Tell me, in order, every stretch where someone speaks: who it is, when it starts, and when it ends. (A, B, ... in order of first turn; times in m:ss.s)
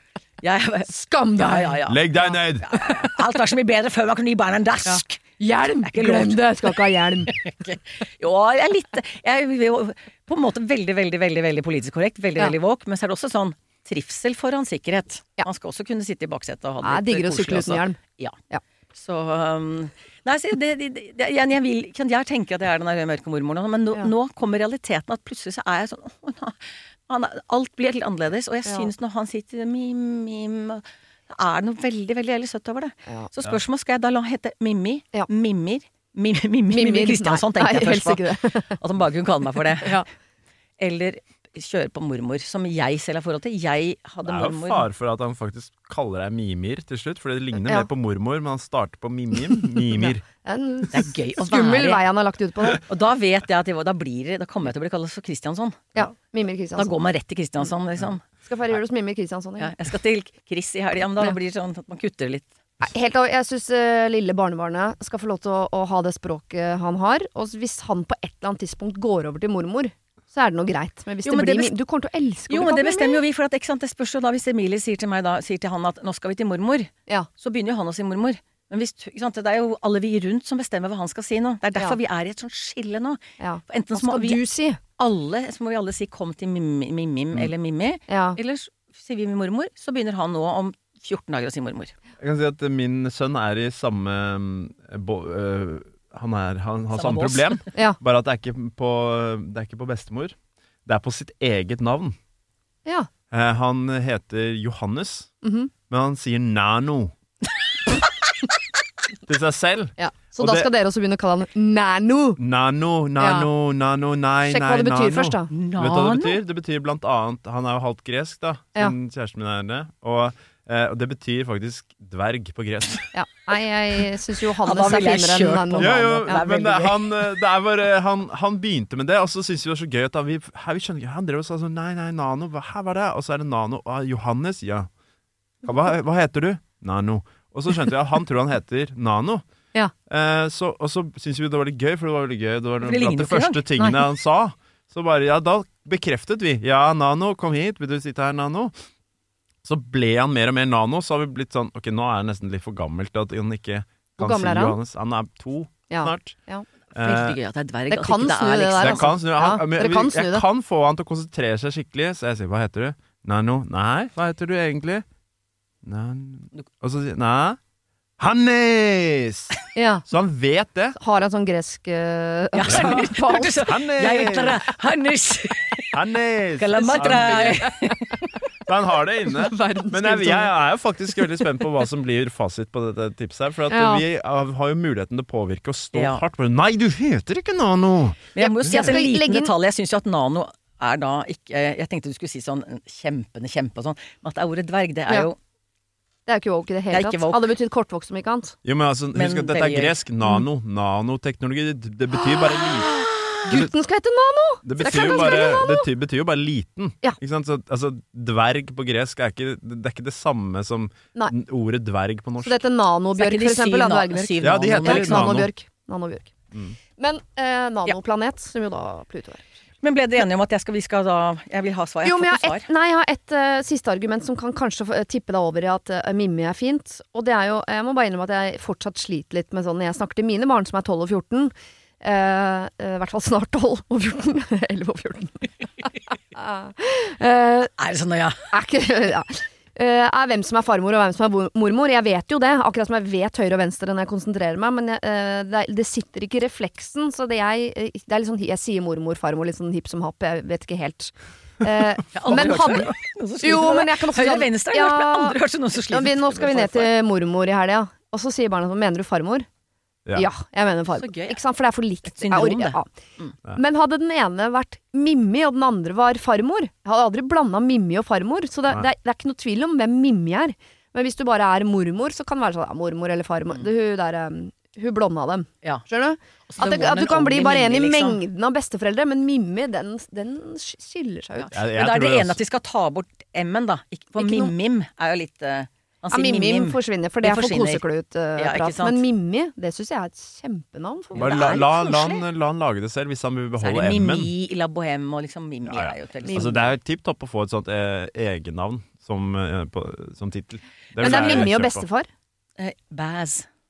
0:00.4-0:02.0 A
0:00.9-0:02.4 B
0:01.8-0:02.7 C
0:02.6-0:05.2 A
0:04.8-0:07.3 B
0:05.8-0:18.4 A
0:16.8-0:18.0 B
0:18.9-0:40.0 A
0:36.7-0:38.8 B
0:40.8-0:44.8 A
0:44.2-0:50.2 C
0:49.8-0:52.8 B
0:50.9-0:52.0 A
0:52.8-0:55.9 A
0:55.9-0:56.9 B
0:56.8-0:58.2 A
0:58.4-0:59.7 B
0:59.6-1:02.5 A
1:02.8-1:13.2 B
1:11.2-1:11.7 A
1:12.5-1:24.4 A
1:23.4-1:24.8 B
1:25.0-1:32.0 A
1:28.1-1:28.4 B
1:32.2-1:42.2 C
1:36.9-1:37.6 A
1:43.3-1:45.3 C
1:45.4-1:45.7 B
1:45.9-1:47.1 C
1:49.2-1:50.7 C
1:50.0-1:52.4 B
1:52.4-2:03.1 C
1:53.2-1:53.5 B
1:54.5-1:55.5 B
1:55.5-1:56.4 A
2:03.1-2:06.5 B
2:04.6-2:07.0 A
2:05.8-2:14.9 C
2:15.6-2:19.4 C
2:20.1-2:28.8 C
2:22.8-2:23.6 A
2:29.6-2:36.4 C
2:34.2-2:34.8 B
2:35.9-2:36.6 B
2:36.9-2:39.1 A
2:36.9-2:37.4 C
2:37.9-2:40.4 B
2:38.8-2:45.0 C
2:45.8-2:47.6 C
2:48.2-2:49.5 C
2:49.7-2:50.0 B
2:50.0-2:51.0 C
2:51.0-2:53.7 B
2:52.5-2:55.8 A
2:53.6-2:54.6 C
2:55.9-2:57.6 C
2:56.6-2:58.3 A
2:56.7-2:58.0 B
2:58.6-3:09.0 C
2:59.3-3:00.5 B
3:03.7-3:04.0 B
3:05.9-3:06.2 A
3:08.3-3:15.4 A
3:08.4-3:09.5 B
3:16.3-3:18.6 B
3:16.9-3:17.4 A
3:18.6-3:22.9 C
3:19.1-3:20.0 A
3:23.4-3:25.9 B
3:24.6-3:32.6 C
3:24.8-3:25.4 A
3:32.4-3:36.3 B
3:33.2-3:35.4 A
3:34.4-3:35.5 C
3:36.5-3:36.8 C
3:37.0-3:39.4 B
3:39.8-3:42.7 A
3:42.0-3:57.7 B
3:57.8-3:58.5 A
3:58.5-4:15.4 B
4:12.1-4:16.9 A
4:15.9-4:19.5 B
4:20.2-4:22.9 B
4:21.0-4:21.4 A
4:22.1-4:23.3 A
4:23.5-4:41.5 B
4:36.5-4:38.2 A
4:41.4-4:47.8 A
4:41.5-4:42.4 C
4:44.2-4:44.5 B
4:46.1-4:51.6 B
4:48.4-4:49.0 A
4:51.1-4:52.2 A
4:51.2-4:54.3 C
4:53.6-4:56.6 A
4:55.7-5:01.8 C
4:56.2-4:56.6 B
5:01.0-5:02.1 B
5:01.0-5:01.5 A
5:02.6-5:03.5 A